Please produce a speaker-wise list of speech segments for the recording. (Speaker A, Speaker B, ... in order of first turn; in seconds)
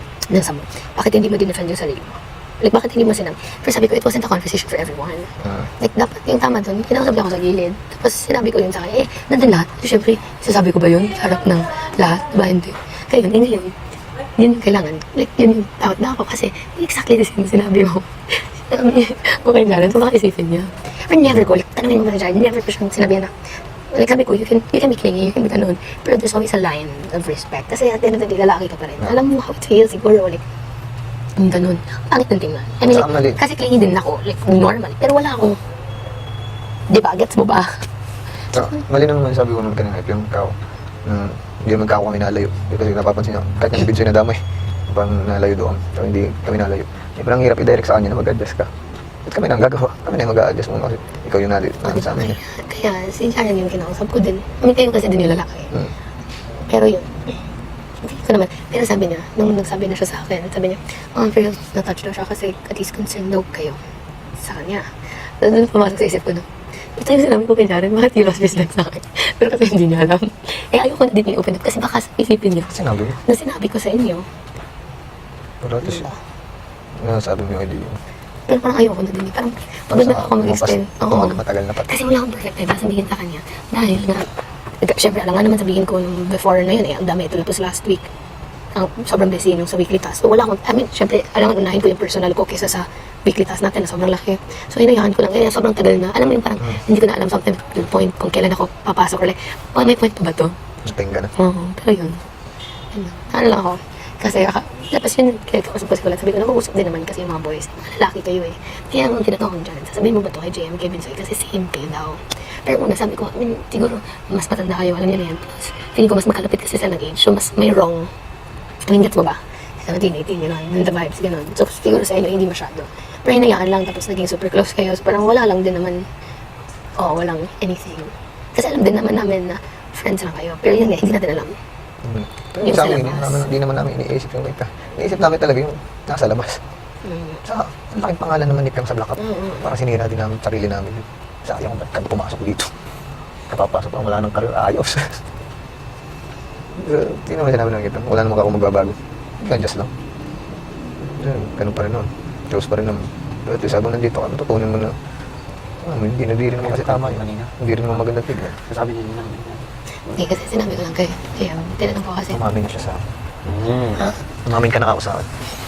Speaker A: 0.2-30.4, 31.4-35.6, 36.9-37.9, 51.9-55.9, 56.6-57.4, 58.0-63.8, 64.3-74.4, 75.8-76.2, 78.5-88.1, 88.7-100.6, 101.4-102.2, 102.9-118.1, 118.8-126.1, 127.0-131.6, 132.6-133.5, 137.0-137.4, 139.2-139.7, 159.9-162.4
Speaker B: 32.9-33.4, 38.5-48.7, 49.3-52.4, 72.7-73.2, 75.6-76.1, 77.0-78.0, 79.9-82.0, 100.8-101.3, 132.0-136.6, 137.4-142.7, 143.5-145.2, 146.8-149.9, 151.2-155.0, 155.8-158.7, 162.3-163.1, 164.4-165.5
Speaker C: 156.8-157.5, 158.7-159.6, 163.5-164.2